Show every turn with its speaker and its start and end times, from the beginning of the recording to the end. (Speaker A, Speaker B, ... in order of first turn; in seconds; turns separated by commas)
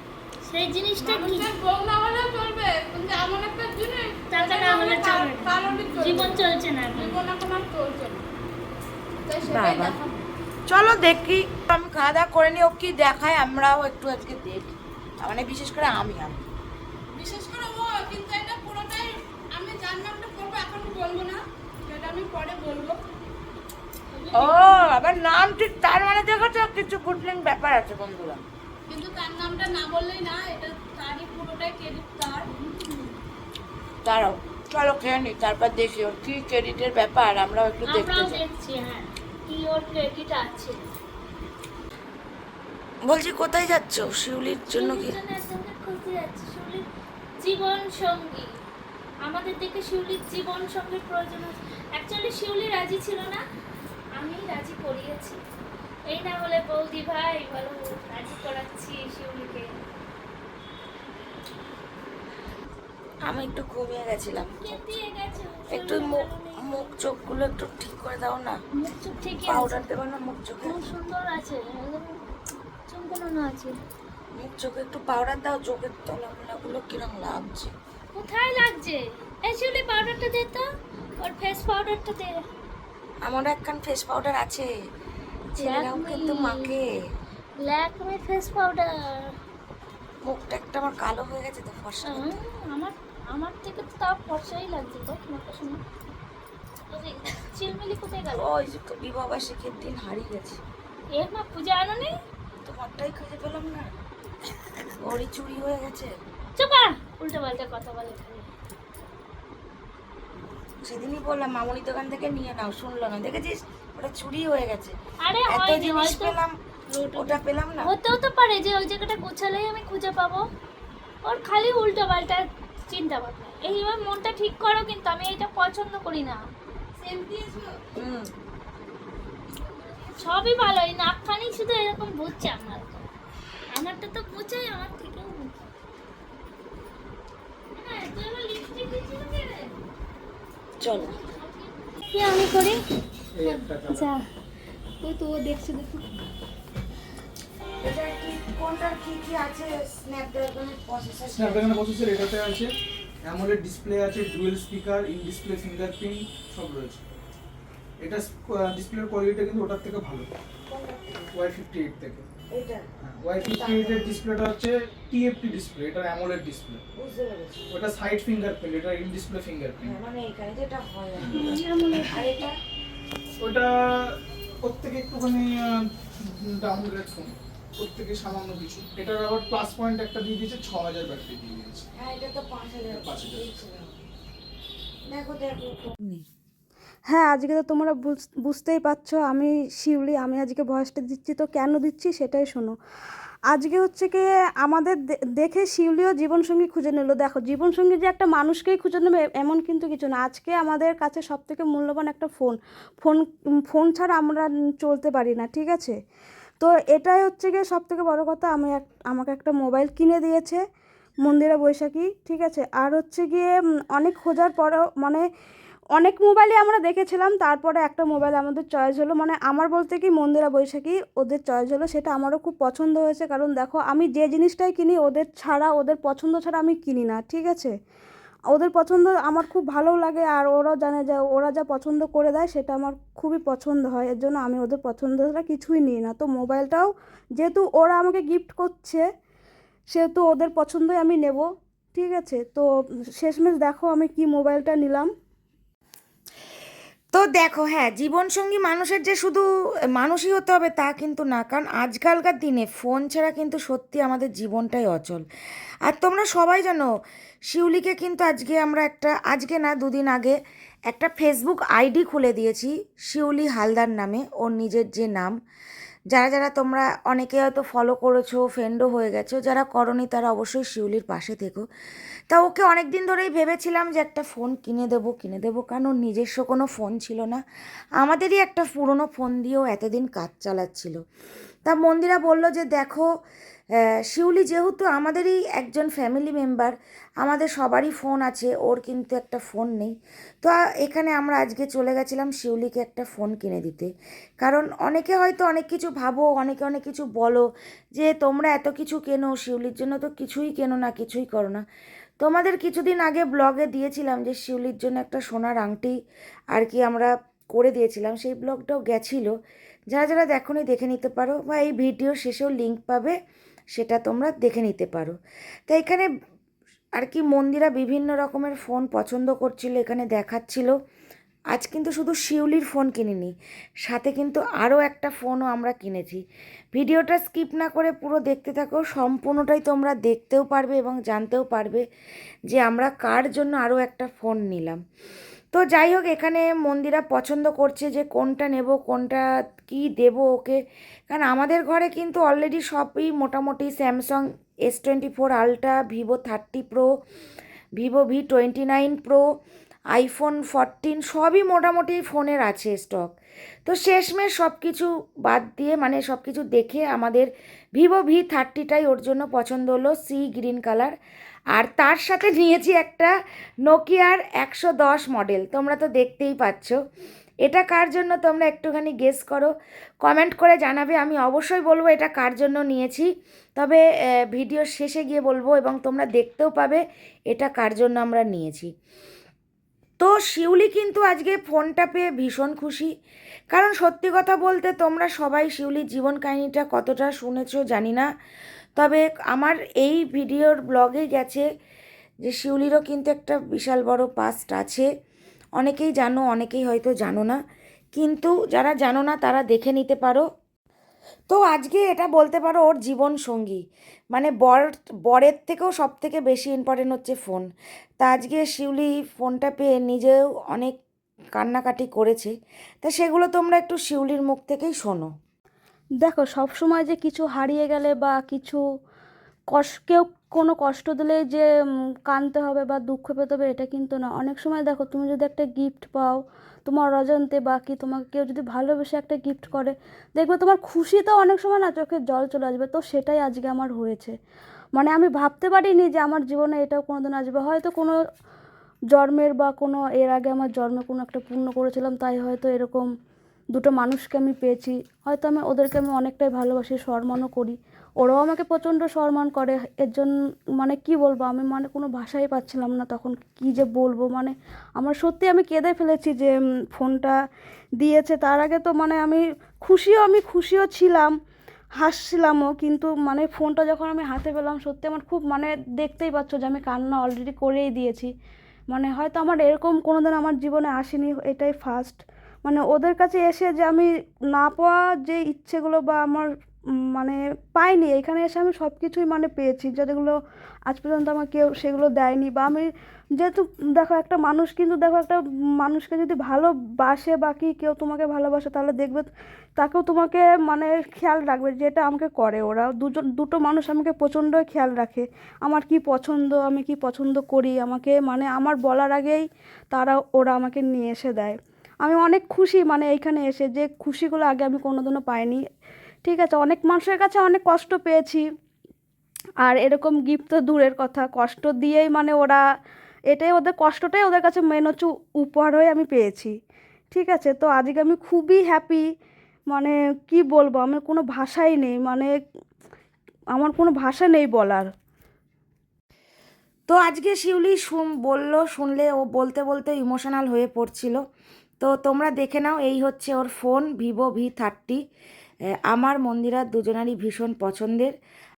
Speaker A: 0.4-1.5, Speaker B: 1.0-6.4, Speaker A: 4.3-7.3, Speaker B: 6.9-8.3, Speaker B: 9.2-10.2, Speaker C: 9.5-9.9, Speaker C: 10.7-16.4, Speaker B: 17.1-23.0, Speaker A: 24.1-24.9, Speaker C: 24.3-28.4, Speaker B: 28.9-32.5, Speaker A: 32.5-33.2, Speaker C: 34.0-38.4, Speaker A: 37.8-40.8, Speaker C: 43.0-45.1, Speaker A: 44.7-46.9, Speaker A: 47.4-48.5, Speaker A: 49.2-53.4, Speaker A: 54.2-55.4, Speaker A: 56.1-59.8, Speaker C: 63.3-64.9, Speaker A: 64.3-67.0, Speaker C: 65.7-68.6, Speaker A: 68.8-69.8, Speaker C: 69.4-70.8, Speaker A: 70.6-72.3, Speaker A: 72.9-73.7, Speaker C: 74.4-77.7, Speaker A: 78.1-80.7, Speaker A: 81.2-82.4, Speaker C: 83.2-84.7, Speaker A: 85.5-86.7, Speaker C: 85.5-86.8, Speaker A: 87.6-89.3, Speaker C: 90.2-92.3, Speaker A: 92.0-95.8, Speaker A: 96.9-98.5, Speaker C: 98.3-100.6, Speaker A: 101.2-102.1, Speaker C: 102.6-103.9, Speaker C: 105.0-106.1, Speaker A: 106.6-108.5, Speaker C: 110.8-114.9, Speaker A: 115.2-116.3, Speaker C: 115.5-116.5, Speaker A: 117.0-120.4, Speaker C: 117.1-117.9, Speaker A: 121.2-126.4, Speaker B: 127.0-127.8, Speaker C: 128.0-128.3, Speaker B: 129.6-130.2, Speaker A: 130.2-133.1, Speaker A: 133.7-135.7, Speaker A: 137.7-139.7, Speaker C: 140.8-141.2, Speaker A: 140.8-142.8, Speaker D: 143.4-144.1, Speaker A: 143.4-144.2, Speaker B: 145.1-146.2, Speaker C: 147.8-151.7, Speaker D: 151.3-152.7, Speaker D: 153.3-157.0, Speaker D: 158.0-160.3, Speaker C: 160.7-161.3, Speaker D: 161.3-162.2, Speaker C: 162.5-162.8, Speaker D: 163.0-166.8, Speaker C: 163.4-164.2, Speaker C: 166.9-167.6, Speaker D: 167.7-170.0, Speaker C: 169.8-171.6, Speaker D: 171.2-171.6, Speaker A: 171.3-172.5, Speaker C: 172.1-172.5, Speaker D: 173.4-181.9, Speaker C: 181.9-184.0, Speaker D: 182.9-183.5, Speaker C: 185.1-186.2, Speaker E: 187.1-192.7, Speaker E: 193.5-205.9, Speaker E: 206.6-210.6, Speaker E: 211.2-215.2, Speaker E: 215.9-227.7, Speaker E: 228.5-239.0, Speaker E: 239.9-245.1, Speaker C: 247.1-249.4, Speaker C: 250.0-255.2, Speaker C: 255.9-256.9, Speaker C: 257.5-260.4, Speaker C: 260.9-265.3, Speaker C: 266.1-271.6, Speaker C: 272.3-277.4, Speaker C: 278.0-281.0, Speaker C: 281.6-283.1, Speaker C: 284.1-297.4, Speaker C: 297.9-301.6, Speaker C: 302.2-305.9, Speaker C: 306.5-309.3, Speaker C: 309.9-313.1, Speaker C: 313.7-315.1, Speaker C: 315.7-316.1, Speaker C: 317.0-320.7, Speaker C: 321.5-323.3, Speaker C: 323.9-326.2, Speaker C: 326.7-331.8, Speaker C: 332.5-334.8, Speaker C: 335.5-346.9, Speaker C: 347.8-349.2, Speaker C: 349.9-353.1, Speaker C: 353.6-360.9, Speaker C: 361.5-363.1, Speaker C: 363.7-366.8, Speaker C: 367.4-369.5, Speaker C: 370.0-378.7, Speaker C: 380.0-382.9, Speaker C: 383.5-388.1, Speaker C: 388.8-391.4, Speaker C: 392.2-394.9, Speaker C: 395.6-397.4, Speaker C: 397.9-400.2, Speaker C: 401.3-403.6, Speaker C: 404.1-407.4, Speaker C: 408.0-410.8, Speaker C: 411.4-412.3, Speaker C: 412.8-415.1, Speaker E: 416.0-418.6, Speaker E: 419.5-421.4, Speaker E: 422.1-434.1, Speaker E: 434.7-438.0, Speaker E: 438.9-442.9, Speaker E: 443.5-457.1, Speaker E: 457.8-461.1, Speaker E: 461.8-468.1, Speaker E: 468.7-476.3, Speaker E: 476.9-480.1, Speaker E: 480.7-489.1, Speaker E: 489.6-505.4, Speaker E: 506.0-508.2, Speaker E: 509.4-512.4, Speaker E: 513.1-516.3, Speaker E: 516.9-518.8, Speaker E: 519.5-522.1, Speaker E: 523.3-524.7, Speaker C: 526.7-531.0, Speaker C: 531.6-534.8, Speaker C: 535.7-537.9